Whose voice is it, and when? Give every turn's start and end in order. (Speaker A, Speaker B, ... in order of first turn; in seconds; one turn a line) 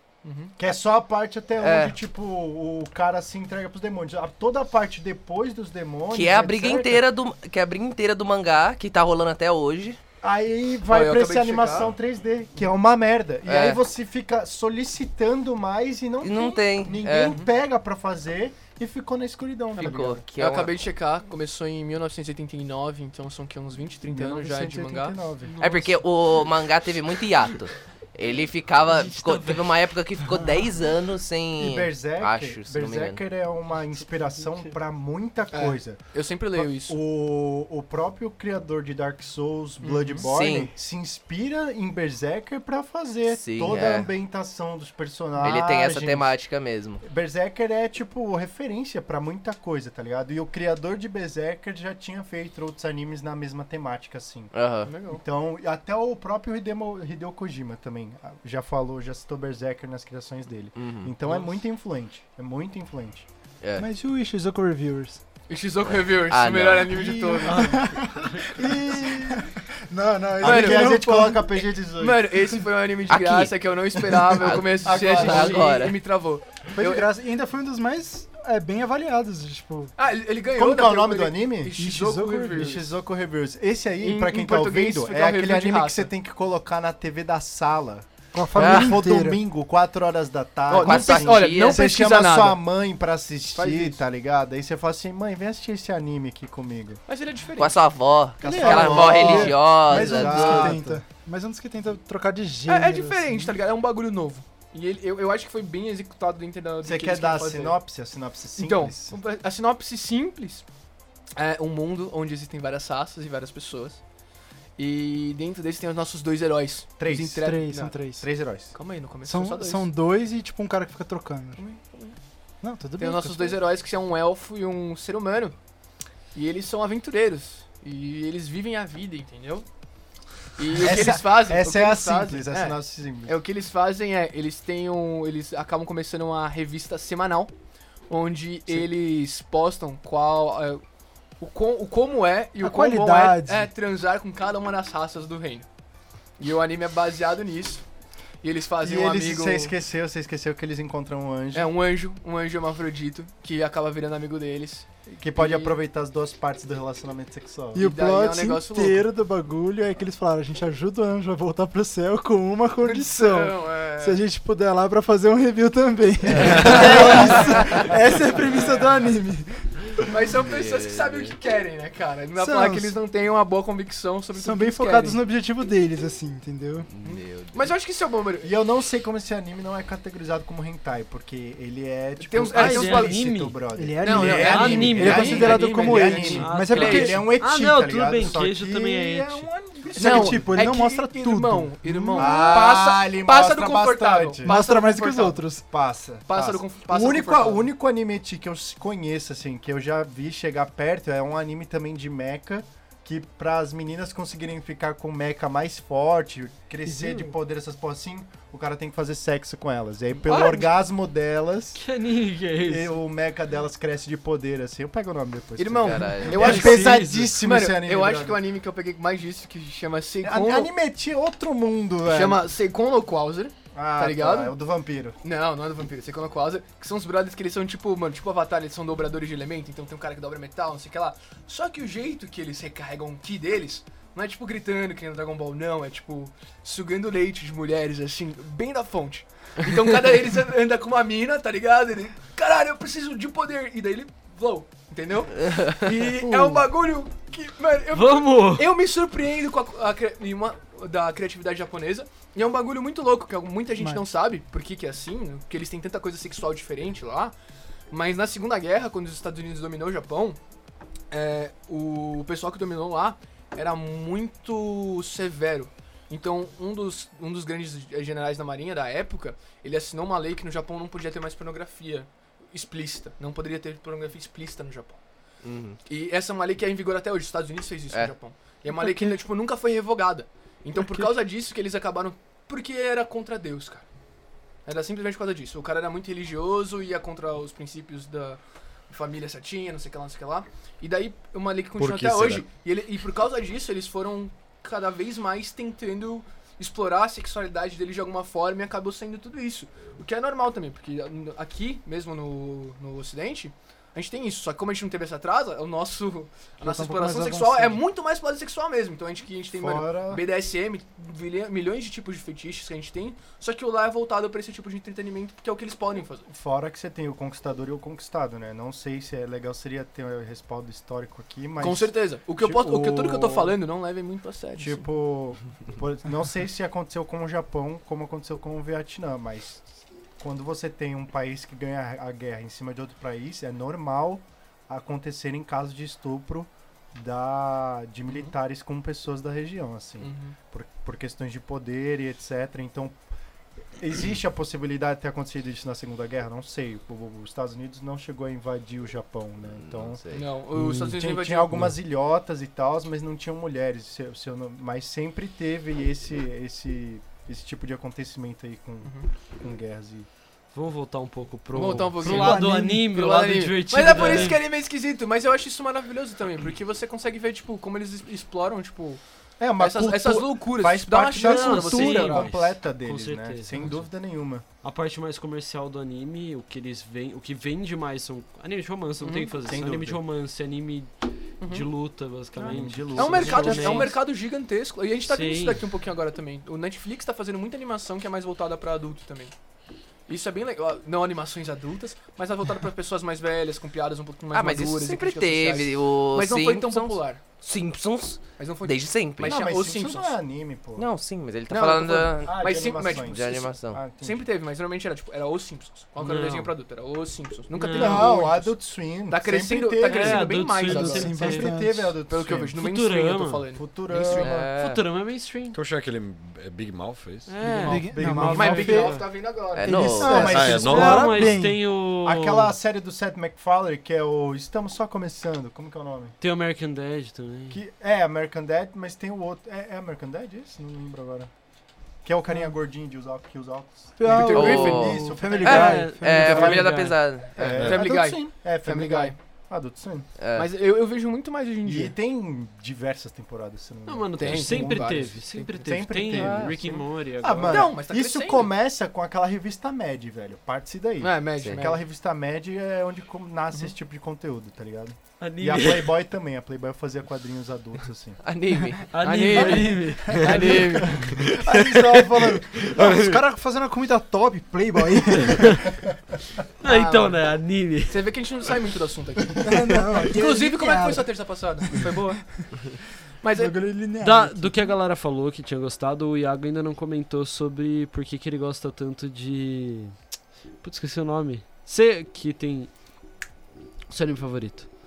Speaker A: 0.2-0.5
Speaker B: 0.6-7.0
Speaker C: 1.6-1.9
Speaker C: 6.1-10.0
Speaker B: 10.2-20.2
Speaker A: 10.9-11.9
Speaker C: 13.4-13.8
Speaker C: 16.2-17.3
Speaker C: 19.8-20.7
Speaker A: 20.4-25.8
Speaker B: 24.1-25.6
Speaker C: 25.6-33.2
Speaker D: 29.0-29.6
Speaker B: 31.6-36.0
Speaker A: 35.5-37.0
Speaker B: 36.5-46.3
Speaker A: 39.8-40.3
Speaker C: 40.2-40.7
Speaker C: 43.3-44.1
Speaker C: 45.4-47.0
Speaker B: 47.0-54.5
Speaker C: 54.5-54.9
Speaker A: 54.9-55.2
Speaker B: 55.1-63.3
Speaker C: 60.8-61.1
Speaker A: 61.2-61.5
Speaker C: 63.6-63.9
Speaker E: 63.8-65.2
Speaker A: 65.5-69.2
Speaker C: 66.3-67.3
Speaker B: 66.9-67.6
Speaker E: 67.5-71.4
Speaker D: 68.0-68.4
Speaker B: 68.9-69.4
Speaker B: 70.4-72.4
Speaker A: 70.4-71.0
Speaker A: 71.8-77.1
Speaker C: 73.1-76.0
Speaker B: 74.8-75.7
Speaker E: 76.7-79.9
Speaker A: 80.0-82.8
Speaker B: 80.5-81.8
Speaker E: 81.8-82.7
Speaker B: 82.5-97.0
Speaker A: 84.0-86.1
Speaker E: 88.3-89.4
Speaker C: 88.5-89.0
Speaker A: 90.7-92.6
Speaker C: 90.7-91.8
Speaker A: 93.5-94.0
Speaker A: 97.1-97.8
Speaker C: 97.6-100.8
Speaker B: 98.4-101.0
Speaker E: 98.4-103.5
Speaker A: 102.7-107.8
Speaker B: 106.8-109.2
Speaker A: 108.6-110.6
Speaker A: 111.4-114.0
Speaker A: 114.8-118.0
Speaker B: 117.0-117.5
Speaker E: 117.1-118.2
Speaker B: 118.2-118.7
Speaker A: 118.7-119.9
Speaker E: 119.2-121.6
Speaker A: 121.6-122.2
Speaker E: 122.6-123.6
Speaker A: 123.0-125.5
Speaker A: 126.3-129.7
Speaker A: 130.6-137.5
Speaker B: 130.8-133.4
Speaker A: 138.1-140.8
Speaker A: 141.4-145.7
Speaker E: 142.6-143.7
Speaker A: 146.4-147.8
Speaker A: 148.4-149.7
Speaker B: 148.8-151.7
Speaker A: 151.5-155.8
Speaker B: 155.1-157.9
Speaker E: 157.7-170.0
Speaker A: 157.7-159.0
Speaker A: 162.8-164.2
Speaker A: 166.4-169.0
Speaker B: 166.5-167.8
Speaker A: 170.0-175.2
Speaker C: 170.4-171.4
Speaker E: 172.4-173.0
Speaker E: 174.3-176.9
Speaker C: 176.9-177.7
Speaker A: 177.0-178.5
Speaker B: 178.4-190.7
Speaker A: 182.2-183.2
Speaker D: 182.5-183.6
Speaker E: 183.7-187.3
Speaker A: 184.0-187.2
Speaker D: 184.2-189.5
Speaker E: 189.9-192.6
Speaker A: 189.9-195.4
Speaker B: 192.1-194.6
Speaker E: 194.4-195.7
Speaker B: 195.7-211.8
Speaker A: 196.3-197.7
Speaker A: 210.3-210.6
Speaker D: 211.7-212.9
Speaker B: 212.6-218.4
Speaker A: 215.6-220.7
Speaker C: 215.8-216.7
Speaker D: 216.3-217.4
Speaker B: 220.2-222.4
Speaker A: 222.1-224.5
Speaker B: 223.7-225.2
Speaker A: 225.2-257.3
Speaker E: 246.2-246.6
Speaker D: 247.9-248.7
Speaker E: 253.8-254.0
Speaker A: 257.9-260.4
Speaker A: 261.1-275.0
Speaker C: 275.4-275.8
Speaker A: 275.9-283.8
Speaker A: 284.6-316.3
Speaker F: 291.8-292.4
Speaker E: 306.6-307.8
Speaker B: 309.5-310.2
Speaker B: 316.3-323.6
Speaker A: 321.6-324.9
Speaker B: 324.6-343.0
Speaker A: 340.0-340.4
Speaker B: 343.8-350.0
Speaker C: 349.6-350.2
Speaker A: 350.1-351.7
Speaker B: 350.6-360.1
Speaker A: 358.8-359.1
Speaker D: 360.5-364.4
Speaker A: 361.5-369.0
Speaker E: 362.0-362.9
Speaker B: 369.4-374.4
Speaker A: 369.6-372.3
Speaker D: 371.1-373.9
Speaker D: 374.6-384.0
Speaker A: 379.0-379.3
Speaker B: 379.4-380.0
Speaker A: 381.4-381.6
Speaker B: 382.5-383.9
Speaker A: 382.9-389.3
Speaker E: 383.2-383.9
Speaker D: 385.1-385.6
Speaker A: 390.1-397.2
Speaker C: 394.3-399.4
Speaker A: 398.4-400.1
Speaker B: 399.2-400.9
Speaker C: 400.8-403.8
Speaker A: 401.5-408.6
Speaker B: 402.2-404.2
Speaker D: 406.0-406.5
Speaker D: 407.5-408.2
Speaker B: 407.7-412.6
Speaker A: 409.1-411.3
Speaker D: 409.8-411.5
Speaker E: 410.7-412.0
Speaker A: 412.1-414.4
Speaker D: 412.5-413.4
Speaker B: 413.5-414.5
Speaker C: 414.2-414.8
Speaker D: 414.3-415.6
Speaker F: 415.5-417.4
Speaker D: 417.2-419.1
Speaker A: 417.5-420.0
Speaker E: 417.6-419.1
Speaker B: 417.6-418.8
Speaker C: 419.5-420.4
Speaker E: 419.6-421.6
Speaker B: 419.9-421.1
Speaker F: 420.2-421.3
Speaker D: 420.5-422.5
Speaker B: 422.0-426.1
Speaker D: 426.2-427.6
Speaker B: 427.5-431.3
Speaker B: 432.0-435.8
Speaker E: 434.0-436.7
Speaker A: 434.0-435.1
Speaker C: 434.3-437.8
Speaker D: 435.5-437.0
Speaker A: 437.4-439.1
Speaker B: 437.4-440.1
Speaker C: 440.2-440.5
Speaker A: 440.3-441.9
Speaker B: 441.6-458.2
Speaker D: 443.9-447.6
Speaker A: 444.2-445.6
Speaker C: 446.1-446.8
Speaker A: 447.4-448.5
Speaker A: 451.0-451.8
Speaker D: 455.2-456.0
Speaker C: 458.2-459.6
Speaker D: 458.9-461.0
Speaker A: 459.0-461.1
Speaker E: 460.1-465.7
Speaker B: 461.5-462.2
Speaker F: 462.6-463.2
Speaker D: 466.6-468.1
Speaker A: 466.6-467.2
Speaker A: 467.9-472.6
Speaker E: 469.4-471.1
Speaker A: 473.2-473.7
Speaker E: 473.3-474.6
Speaker D: 474.0-480.0
Speaker D: 480.6-482.7
Speaker D: 483.9-484.7